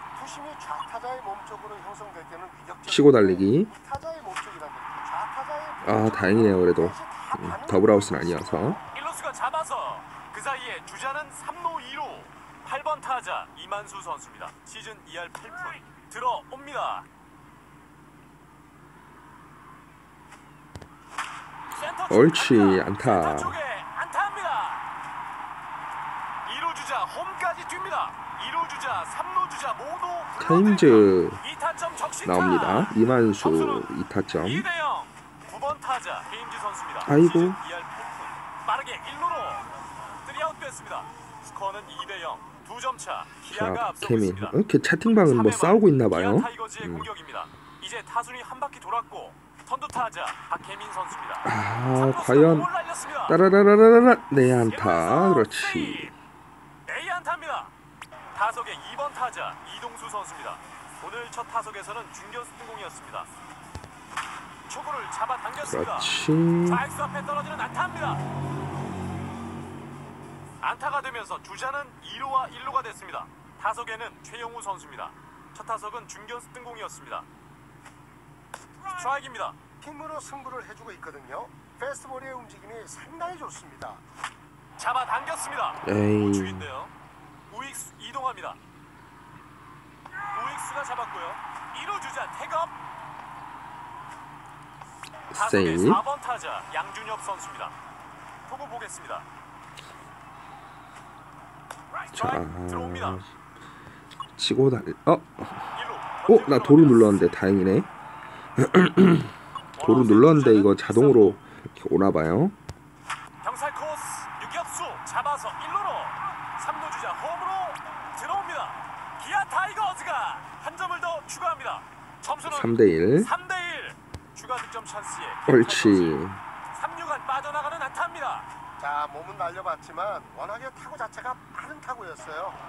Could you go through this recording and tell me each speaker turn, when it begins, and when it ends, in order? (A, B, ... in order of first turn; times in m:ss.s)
0:00.1-0:08.8 A
0:02.9-0:03.7 B
0:05.8-0:08.8 B
0:08.9-0:17.1 C
0:21.8-0:24.8 C
0:22.1-0:23.6 B
0:26.4-0:39.7 C
0:30.4-0:31.4 B
0:32.2-0:34.7 B
0:37.0-0:37.6 B
0:40.2-0:44.6 C
0:43.5-0:47.1 B
0:45.2-0:53.4 C
0:51.4-0:52.7 B
0:53.3-0:56.1 B
0:54.7-0:56.1 C
0:56.9-0:57.7 C
0:58.3-1:03.3 C
1:04.7-1:08.2 C
1:05.6-1:06.8 B
1:10.6-1:17.3 C
1:18.8-1:19.6 C
1:19.8-1:24.0 A
1:24.8-1:26.9 C
1:25.8-1:26.7 B
1:27.5-1:28.6 C
1:30.3-1:32.8 C
1:35.3-1:36.0 B
1:35.3-1:37.8 C
1:38.5-1:39.3 C
1:42.0-1:43.3 C
1:42.2-1:43.3 B
1:44.4-1:45.6 B
1:45.8-1:47.3 C
1:46.3-1:47.9 B
1:48.6-1:52.6 B
1:49.8-1:51.4 C
1:53.4-2:06.2 C
2:02.4-2:03.3 B
2:05.5-2:06.4 B
2:06.7-2:08.5 C
2:08.8-2:12.6 A